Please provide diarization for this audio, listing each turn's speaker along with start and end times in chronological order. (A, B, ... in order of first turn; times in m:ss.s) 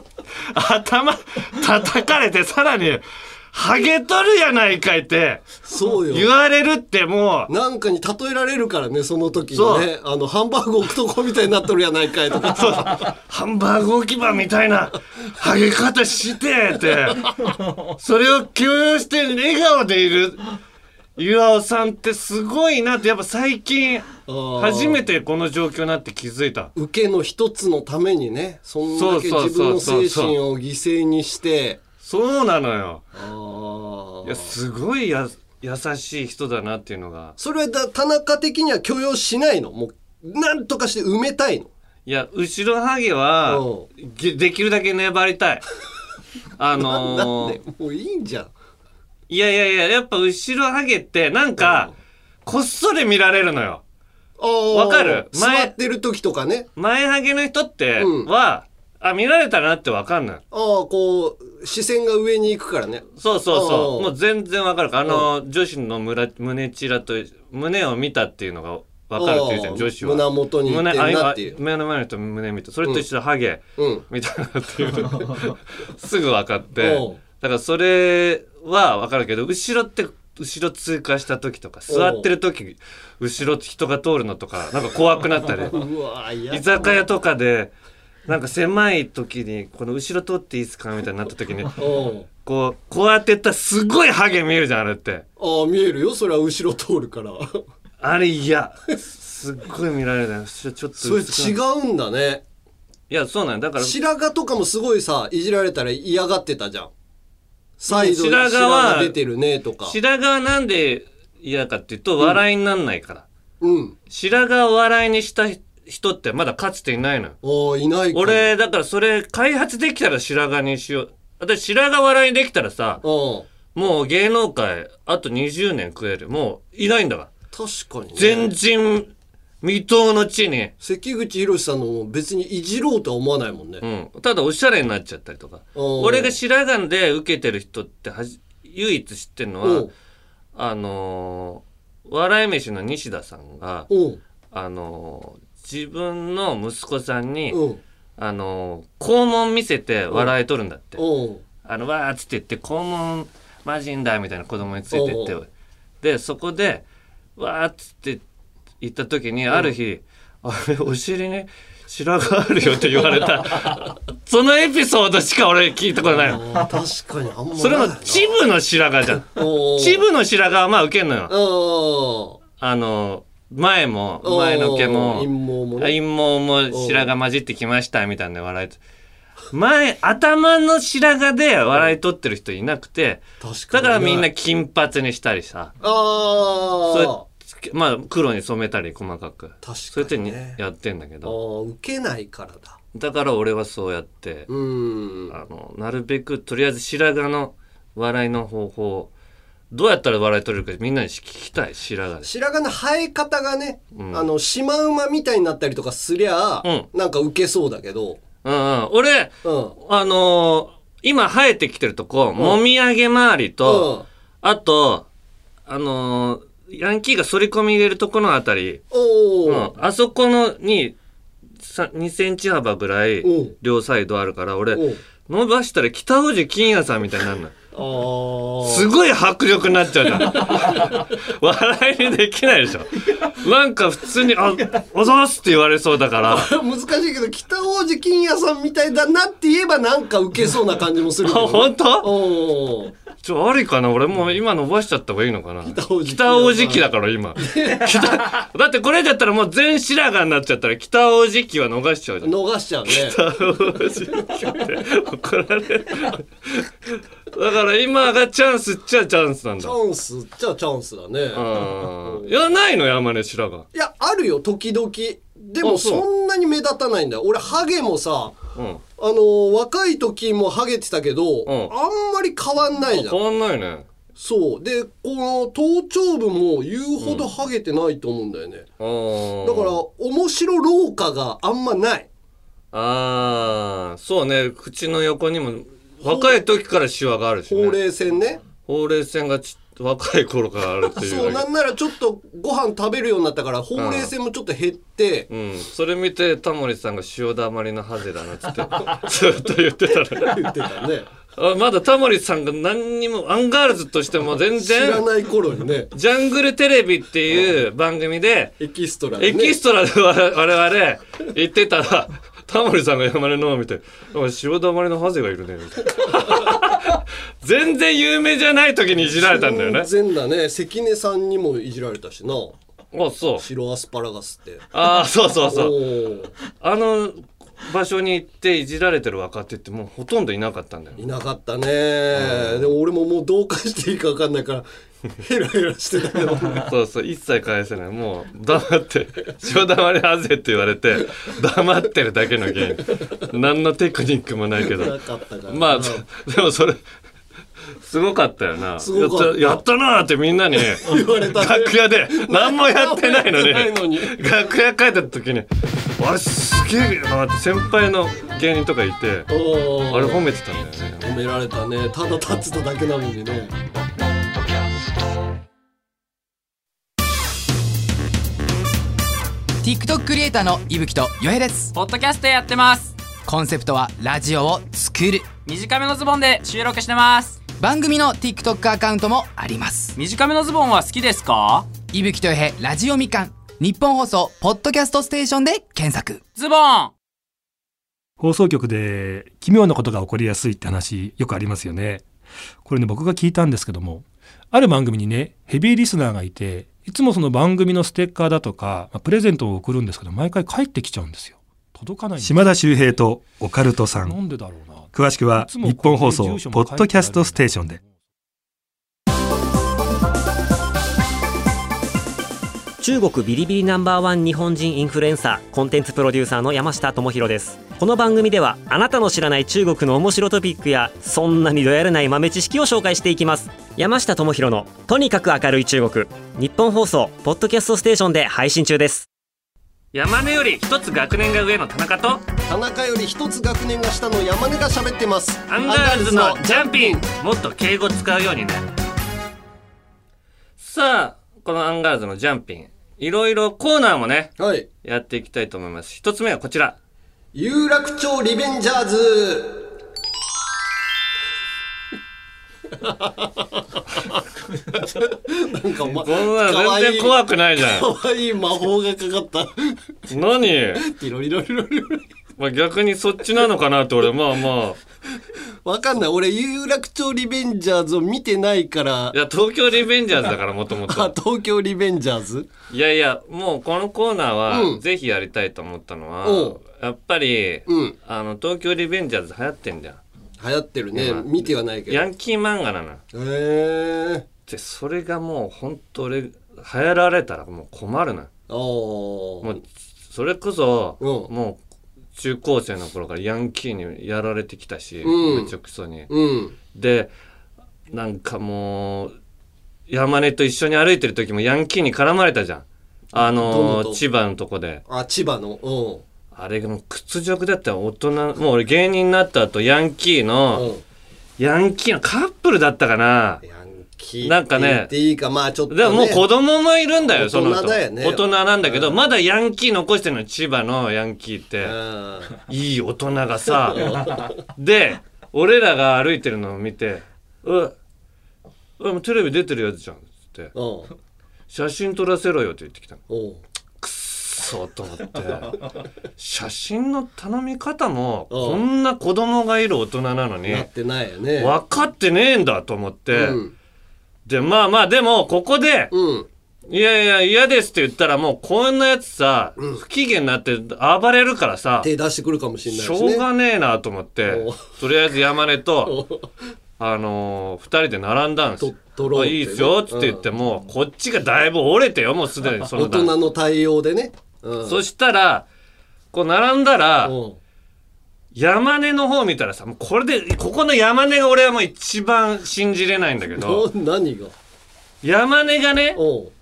0:00.4-0:05.5 A
0:05.6-0:06.3 B
0:06.1-0:07.5 A
0:07.5-0:13.0 B
0:09.5-0:09.9 A
0:12.5-0:17.4 A
0:18.0-0:20.5 A
0:21.2-0:26.7 A
0:24.3-0:25.0 B
0:26.8-0:31.8 B
0:28.9-0:30.4 A
0:32.0-0:33.0 A
0:33.1-0:34.5 B
0:34.2-0:37.4 A
0:37.4-0:41.7 B
0:42.0-0:45.6 A
0:43.5-0:43.9 B
0:46.6-0:47.6 A
0:46.8-0:48.5 B
0:49.3-0:51.9 A
0:51.6-0:51.9 B
0:52.4-0:53.8 A
0:54.4-0:56.7 B
0:54.7-0:55.8 A
0:56.8-1:00.4 A
0:58.0-0:58.3 B
1:00.5-1:04.1 B
1:03.2-1:25.8 A
1:09.2-1:11.6 B
1:13.8-1:14.0 B
1:16.8-1:17.2 B
1:21.9-1:22.3 B
1:25.7-1:27.0 B
1:26.5-1:27.7 A
1:28.3-1:31.8 A
1:31.8-1:32.3 B
1:32.4-1:35.2 A
1:35.4-1:37.6 B
1:38.0-1:41.6 A
1:41.0-1:42.4 B
1:43.1-1:44.0 A
1:43.8-1:46.9 B
1:47.8-1:50.0 B
1:47.9-1:49.2 A
1:49.8-1:53.2 A
1:53.6-1:54.0 B
1:54.1-1:57.4 A
1:57.4-1:58.5 B
1:58.1-2:03.0 A
2:03.0-2:03.5 B
2:03.7-2:07.3 A
2:07.5-2:08.5 B
2:08.2-2:09.1 A
2:09.6-2:10.7 A
2:10.8-2:13.8 B
2:13.8-2:19.9 A
2:15.8-2:16.4 B
2:19.6-2:19.9 B
2:20.5-2:23.9 A
2:23.9-2:24.2 B
2:24.5-2:27.6 A
2:27.5-2:27.8 B
2:28.2-2:31.0 A
2:31.0-2:31.4 B
2:31.6-2:35.5 A
2:34.9-2:35.4 B
2:36.0-2:36.8 A
2:37.4-2:38.2 A
2:38.8-2:46.5 A
2:46.0-2:48.3 B
2:47.6-2:51.3 A
2:49.3-2:50.0 B
2:51.3-2:52.4 B
2:52.6-2:58.8 A
2:54.2-2:56.0 B
2:56.7-2:57.1 B
2:59.5-3:05.7 A
3:03.4-3:04.3 B
3:05.8-3:07.2 B
3:06.9-3:11.4 A
3:09.6-3:10.6 B
3:11.2-3:12.8 B
3:12.9-3:14.5 A
3:14.5-3:15.3 B
3:15.3-3:19.1 A
3:19.7-3:22.3 A
3:22.2-3:28.2 B
3:23.9-3:24.3 A
3:28.4-3:33.9 A
3:29.4-3:29.8 B
3:33.6-3:34.0 B
3:34.4-3:35.1 A
3:35.7-3:38.8 A
3:38.9-3:39.7 B
3:39.4-3:41.0 A
3:41.6-3:47.5 A
3:43.2-3:43.6 B
3:44.7-3:45.0 B
3:47.7-3:48.9 B
3:48.6-3:56.5 A
3:50.4-3:50.9 B
3:56.2-4:03.0 B
4:01.2-4:02.2 A
4:03.2-4:19.8 A
4:05.6-4:08.2 B
4:12.2-4:13.2 B
4:19.6-4:22.4 B
4:21.3-4:23.7 A
4:23.7-4:28.4 B
4:25.6-4:26.0 A
4:28.5-4:28.8 A
4:29.0-4:33.2 B
4:31.5-4:31.7 A
4:32.9-4:33.9 A
4:34.2-4:38.7 B
4:37.0-4:37.3 A
4:38.8-4:39.8 A
4:39.4-4:42.1 B
4:42.7-4:47.8 A
4:46.0-4:46.4 B
4:47.5-4:48.4 B
4:48.6-4:51.5 A
4:50.9-4:55.3 B
4:53.8-4:54.1 A
4:55.3-5:00.5 A
5:00.2-5:01.1 B
5:01.3-5:05.0 A
5:04.6-5:05.9 B
5:05.9-5:08.6 A
5:08.6-5:09.6 B
5:09.2-5:19.9 A
5:16.1-5:16.4 B
5:19.0-5:22.6 B
5:22.9-5:23.5 A
5:23.4-5:24.7 B
5:24.7-5:25.8 A
5:25.4-5:26.3 B
5:26.5-5:31.0 A
5:31.0-5:34.7 B
5:32.2-5:32.7 A
5:35.2-5:36.7 B
5:36.5-5:45.0 A
5:44.6-5:46.0 B
5:45.5-5:46.8 A
5:47.8-5:55.5 A
5:48.8-5:49.6 B
5:50.7-5:54.2 B
5:56.0-5:59.3 A
5:59.3-6:00.2 B
5:59.9-6:01.1 A
6:01.0-6:03.5 B
6:09.6-6:11.7 C
6:11.8-6:13.0 D
6:13.2-6:15.3 C
6:15.4-6:17.4 D
6:17.6-6:19.9 C
6:20.0-6:21.7 D
6:21.9-6:26.2 C
6:26.3-6:26.9 D
6:28.2-6:32.0 E
6:32.6-6:42.8 E
6:42.2-6:44.2 F
6:44.0-6:47.8 E
6:44.9-6:47.8 F
6:52.8-7:09.1 G
7:09.9-7:12.2 A
7:12.5-7:17.0 B
7:15.5-7:18.7 A
7:20.6-7:26.8 A
7:24.4-7:24.7 B
7:27.3-7:29.8 B
7:32.7-7:39.8 B
7:35.9-7:37.9 A
7:40.1-7:40.8 A
7:40.8-7:42.1 B
7:42.4-7:44.8 A
7:45.6-7:49.2 B
7:49.1-7:51.1 A
7:50.9-7:52.5 B
7:52.7-8:00.0 A
7:54.5-7:54.8 B
7:56.2-7:56.6 B
7:57.7-7:58.0 B
8:00.4-8:02.1 B
8:00.9-8:03.0 A
8:03.1-8:04.2 B
8:04.5-8:08.3 A
8:08.5-8:09.6 B
8:09.4-8:11.6 A
8:11.0-8:11.3 B
8:12.2-8:16.1 A
8:15.0-8:15.5 B
8:16.1-8:16.5 B
8:16.7-8:17.1 A
8:17.9-8:19.1 A
8:19.9-8:24.8 A
8:23.2-8:24.0 B
8:24.9-8:26.0 B
8:26.3-8:30.7 A
8:30.5-8:30.8 B
8:31.4-8:33.4 A
8:33.4-8:36.2 B
8:34.2-8:34.9 A
8:35.7-8:41.8 A
8:37.1-8:39.0 B
8:41.6-8:42.3 B
8:42.5-8:47.8 A
8:43.7-8:44.4 B
8:48.8-8:50.5 A
8:50.5-8:50.9 B
8:51.5-8:53.0 A
8:53.1-8:53.4 B
8:53.8-8:55.6 A
8:56.2-9:00.7 A
8:58.3-8:58.6 B
9:00.5-9:01.6 B
9:01.4-9:03.4 A
9:03.1-9:03.5 B
9:04.2-9:05.9 A
9:05.9-9:06.3 B
9:06.7-9:11.9 A
9:11.8-9:13.2 B
9:12.7-9:16.0 A
9:14.2-9:14.6 B
9:15.8-9:16.3 B
9:16.8-9:23.1 A
9:18.6-9:20.2 B
9:22.7-9:24.8 B
9:24.6-9:25.5 A
9:26.1-9:27.2 A
9:27.0-9:27.4 B
9:28.3-9:33.7 A
9:33.3-9:34.3 B
9:35.0-9:36.0 A
9:36.0-9:36.3 B